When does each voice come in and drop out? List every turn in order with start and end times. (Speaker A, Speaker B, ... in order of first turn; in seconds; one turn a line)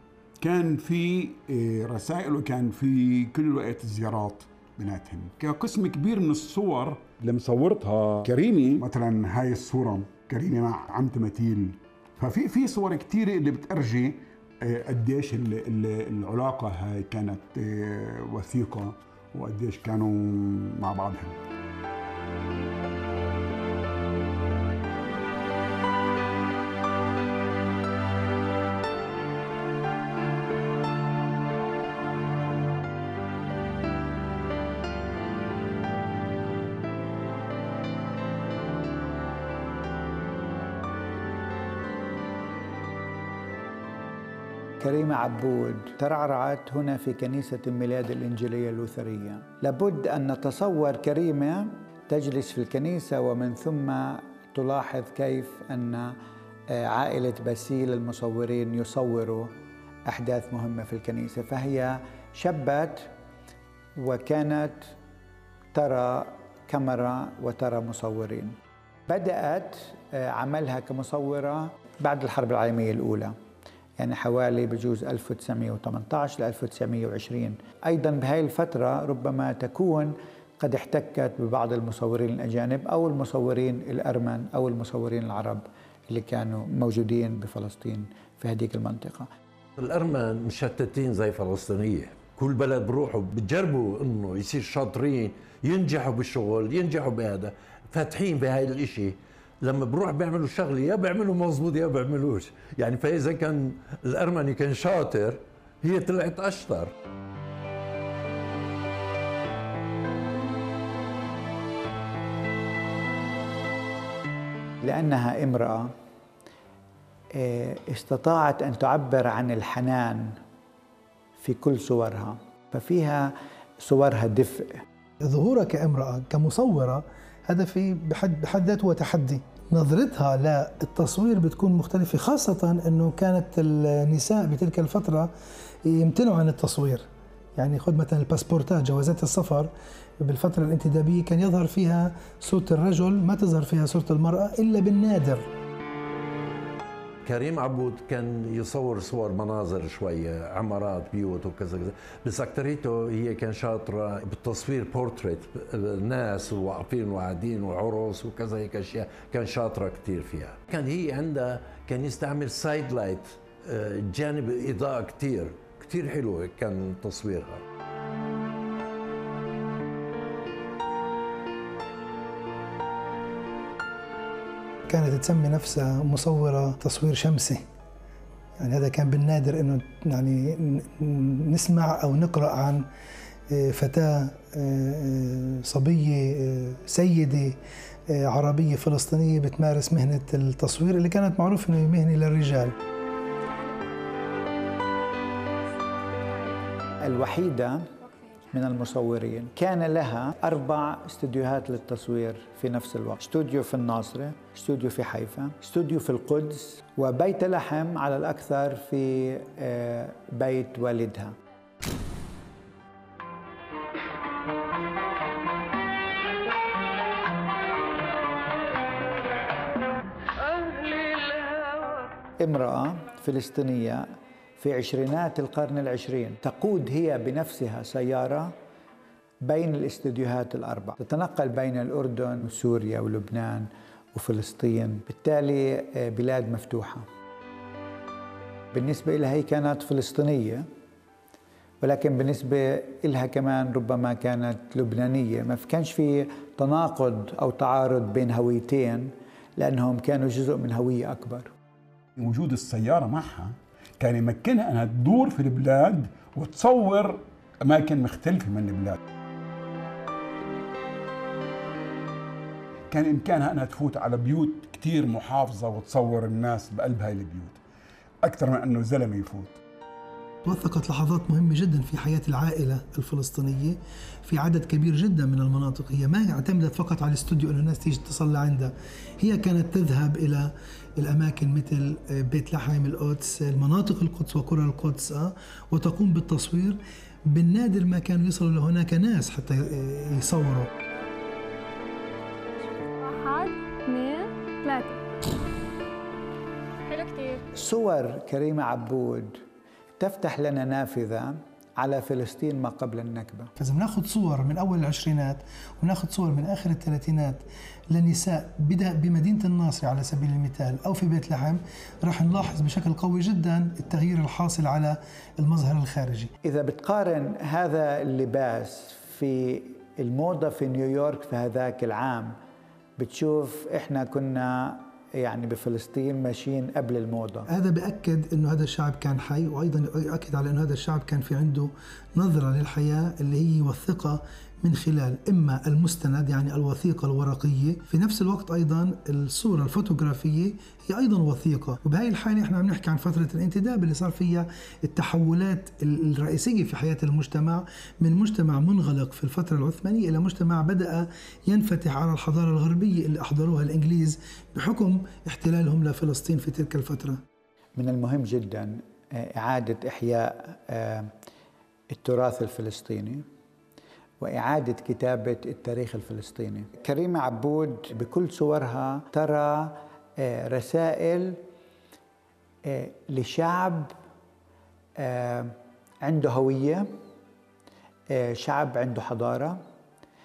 Speaker A: 0.4-21.4
Speaker B: 44.8-56.1
Speaker B: 56.7-59.5
Speaker B: 60.1-63.1
Speaker B: 64.0-64.9
Speaker B: 65.7-68.5
Speaker B: 69.1-73.3
Speaker B: 74.0-89.3
Speaker C: 89.8-106.9
Speaker B: 114.8-115.9
Speaker B: 117.4-120.4
Speaker B: 121.4-124.8
Speaker D: 125.2-135.3
Speaker D: 135.8-137.0
Speaker D: 137.6-145.5
Speaker C: 147.2-167.6
Speaker D: 174.9-177.6
Speaker D: 178.6-182.8
Speaker D: 183.5-192.7
Speaker E: 193.5-194.0
Speaker E: 196.0-197.0
Speaker B: 197.0-197.9
Speaker E: 198.1-198.5
Speaker B: 198.5-211.3
Speaker B: 222.4-224.0
Speaker B: 224.6-228.5
Speaker B: 229.4-237.0
Speaker B: 238.7-240.7
Speaker B: 241.8-251.5
Speaker A: 252.2-259.0
Speaker A: 262.9-267.6
Speaker A: 268.2-269.6
Speaker D: 270.4-290.7
Speaker E: 292.6-295.0
Speaker E: 296.9-297.4
Speaker B: 297.6-299.4
Speaker B: 300.0-303.5
Speaker D: 303.6-316.3
Speaker B: 316.4-322.3
Speaker B: 323.0-327.5
Speaker D: 327.5-357.2
Speaker B: 357.8-361.1
Speaker B: 361.9-363.2
Speaker B: 364.2-371.4
Speaker B: 372.6-373.9
Speaker B: 375.0-376.9
Speaker B: 378.1-379.6